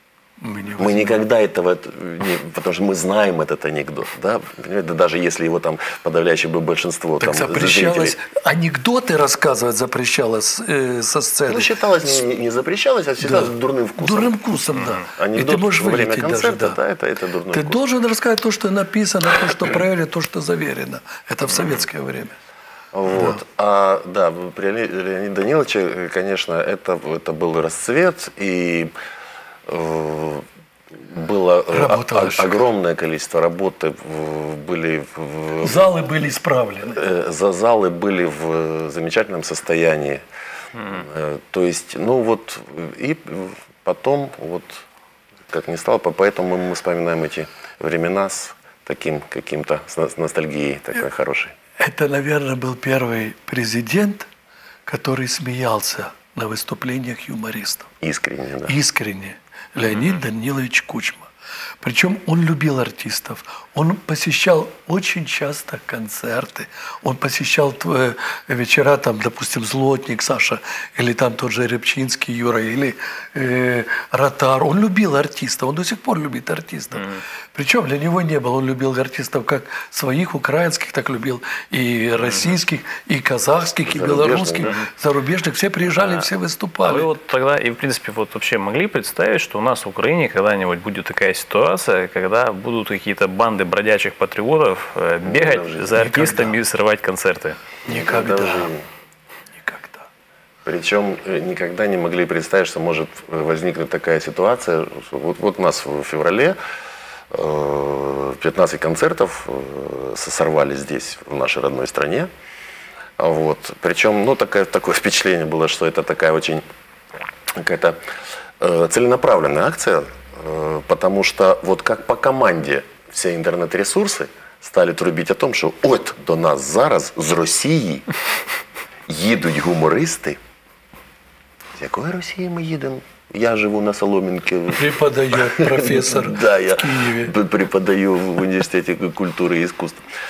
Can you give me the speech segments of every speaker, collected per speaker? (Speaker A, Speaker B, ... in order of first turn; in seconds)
Speaker A: 0.4-1.2, 7.2-11.7, 13.2-16.8, 17.5-22.4, 23.1-23.4, 31.7-32.6, 35.6-37.0, 51.8-54.3, 54.9-57.9, 58.6-61.3, 61.8-87.1, 96.0-96.6, 97.8-98.7, 99.5-100.1, 134.7-137.3
Speaker B: 0.8-8.2, 11.5-14.4, 15.1-17.8, 22.9-28.9, 29.7-30.4, 31.0-35.9, 36.9-40.2, 40.9-44.8, 45.5-51.5, 58.0-58.7, 83.8-84.8, 95.2-96.0, 97.9-98.8, 100.6-106.6, 107.3-112.3, 113.2-116.6, 117.6-118.0, 118.6-128.1, 129.1-130.4, 131.8-140.0
Speaker C: 59.9-60.2, 76.9-77.2, 82.2-82.6, 84.6-84.9, 86.0-86.3, 86.8-97.6